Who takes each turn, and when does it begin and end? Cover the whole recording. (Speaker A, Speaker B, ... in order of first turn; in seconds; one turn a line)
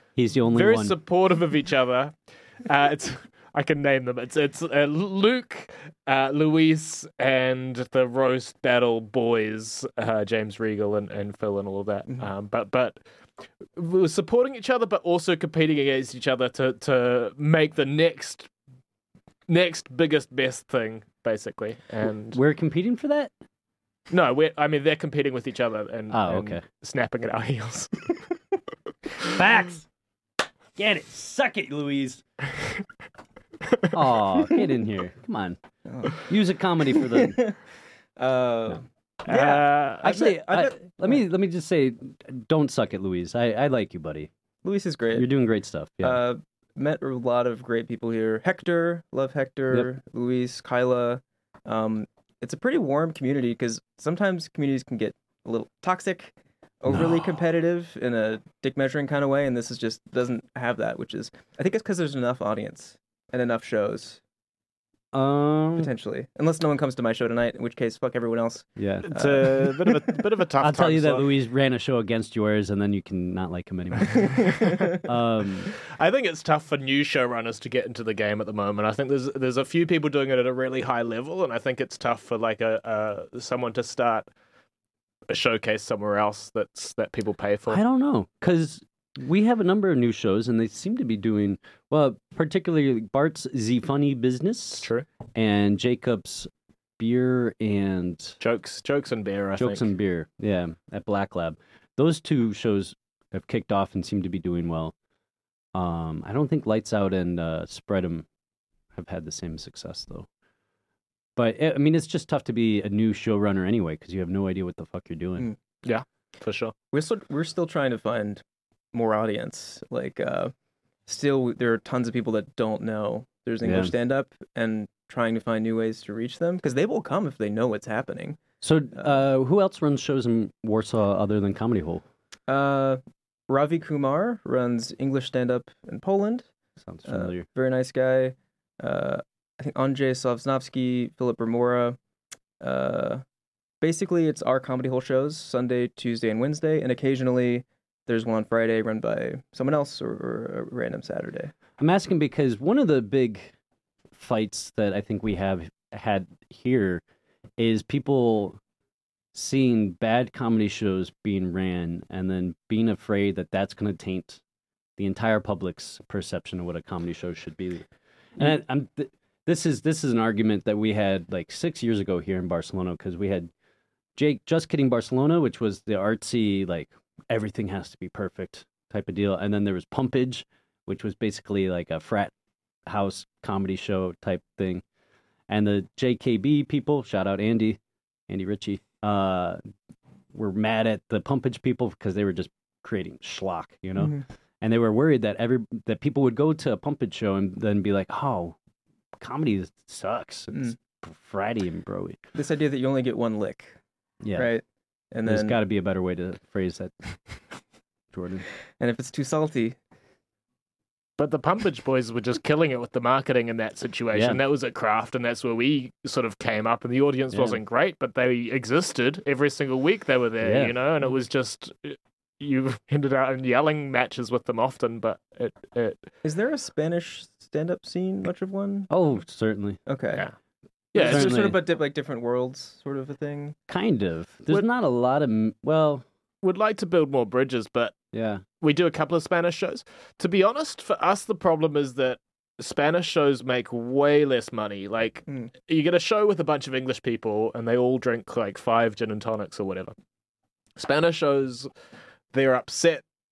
Speaker A: 0.1-0.9
Speaker B: 0.5-12.9
Speaker B: 13.7-18.5
Speaker B: 19.5-22.4
Speaker A: 22.3-23.3
Speaker B: 24.1-28.1
Speaker A: 26.1-26.6
Speaker A: 29.2-29.9
Speaker A: 30.8-32.2
Speaker A: 33.9-35.6
Speaker C: 35.9-36.1
Speaker A: 36.1-37.4
Speaker C: 37.0-37.6
Speaker C: 38.2-41.2
Speaker B: 39.2-40.0
Speaker A: 40.0-44.3
Speaker C: 44.6-45.3
Speaker A: 45.1-46.2
Speaker C: 46.0-64.2
Speaker A: 65.1-65.9
Speaker C: 65.8-70.2
Speaker A: 68.8-69.1
Speaker B: 69.1-71.3
Speaker A: 70.6-75.7
Speaker C: 74.2-74.8
Speaker B: 75.7-84.2
Speaker B: 85.3-87.8
Speaker A: 87.7-98.4
Speaker B: 98.4-99.9
Speaker A: 99.5-104.9
Speaker A: 105.7-108.2
Speaker A: 108.9-110.3
Speaker A: 111.3-115.5
Speaker B: 115.8-116.7
Speaker C: 116.9-120.5
Speaker C: 121.1-128.4
Speaker A: 123.6-123.9
Speaker A: 128.6-132.0
Speaker C: 132.5-136.5
Speaker A: 136.8-137.4
Speaker C: 137.1-142.0
Speaker C: 142.6-143.2
Speaker C: 143.8-151.5
Speaker A: 151.8-153.5
Speaker A: 154.1-157.0
Speaker A: 157.6-158.6
Speaker A: 159.3-164.4
Speaker A: 165.0-167.8
Speaker A: 168.4-173.5
Speaker A: 174.2-182.3
Speaker A: 182.9-184.8
Speaker A: 185.5-189.6
Speaker A: 190.3-198.6
Speaker C: 194.0-194.2
Speaker A: 199.2-202.2
Speaker C: 202.3-203.8
Speaker A: 204.2-204.5
Speaker C: 204.3-205.6
Speaker A: 205.2-206.9
Speaker A: 208.1-208.4
Speaker C: 208.8-209.8
Speaker B: 211.2-226.1
Speaker A: 214.1-214.4
Speaker A: 217.3-217.6
Speaker A: 220.4-220.7
Speaker C: 226.2-228.9
Speaker A: 228.9-229.8
Speaker C: 229.9-230.2
Speaker B: 230.9-231.5
Speaker C: 230.9-233.6
Speaker A: 231.0-231.6
Speaker A: 233.7-236.0
Speaker B: 236.4-237.9
Speaker A: 238.1-238.4
Speaker B: 238.6-249.9
Speaker B: 250.8-251.7
Speaker B: 252.3-253.0